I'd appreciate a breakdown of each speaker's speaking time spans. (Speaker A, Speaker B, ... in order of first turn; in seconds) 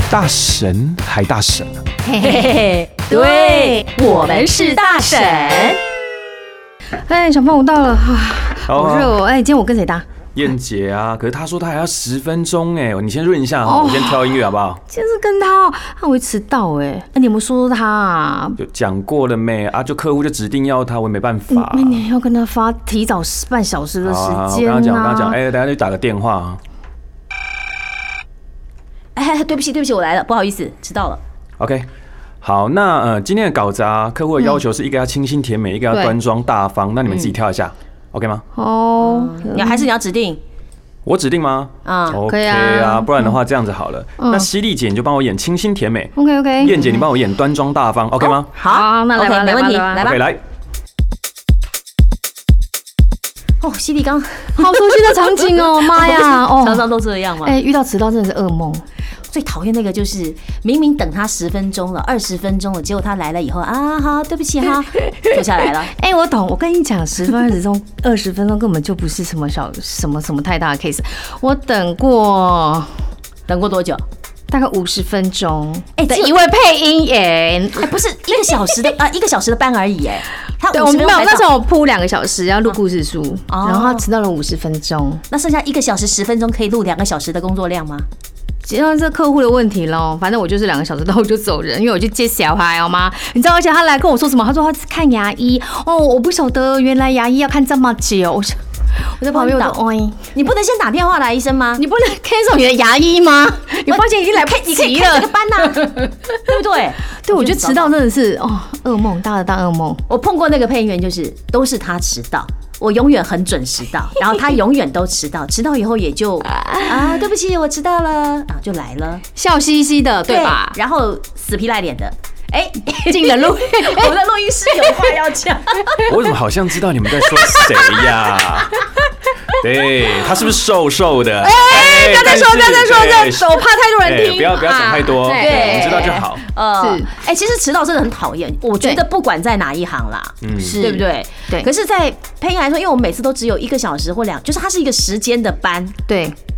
Speaker A: 0.1-1.8, 8.7-9.2, 10.3-14.8, 18.6-22.0, 24.0-26.6, 31.6-31.9, 32.4-38.4, 41.0-48.5, 50.0-50.4, 126.0-128.8, 129.6-136.4, 140.4-140.8
Speaker B: 2.0-2.5, 3.1-3.8, 7.1-10.1, 13.6-18.6, 21.5-25.4, 38.5-39.9, 42.2-43.4, 44.2-44.5, 46.2-46.9, 48.6-50.1, 54.6-56.9, 57.4-58.8, 65.9-72.9, 74.5-77.9, 80.7-85.2, 88.7-98.6, 99.2-100.2, 101.8-106.0, 107.2-110.0, 116.6-117.2, 119.4-120.8, 123.0-124.2, 131.4-136.2, 136.8-137.1, 140.6-141.7, 146.1-146.4
Speaker C: 2.2-5.8, 29.1-31.2, 37.1-37.4, 39.0-40.4, 41.9-42.2, 48.2-50.2, 53.6-57.6, 59.3-65.9, 73.5-74.0, 76.0-76.3, 77.7-81.5, 83.5-84.1, 85.3-88.1, 99.3-99.8, 100.3-101.8, 103.9-107.9, 110.1-119.2, 120.3-126.1, 135.3-145.9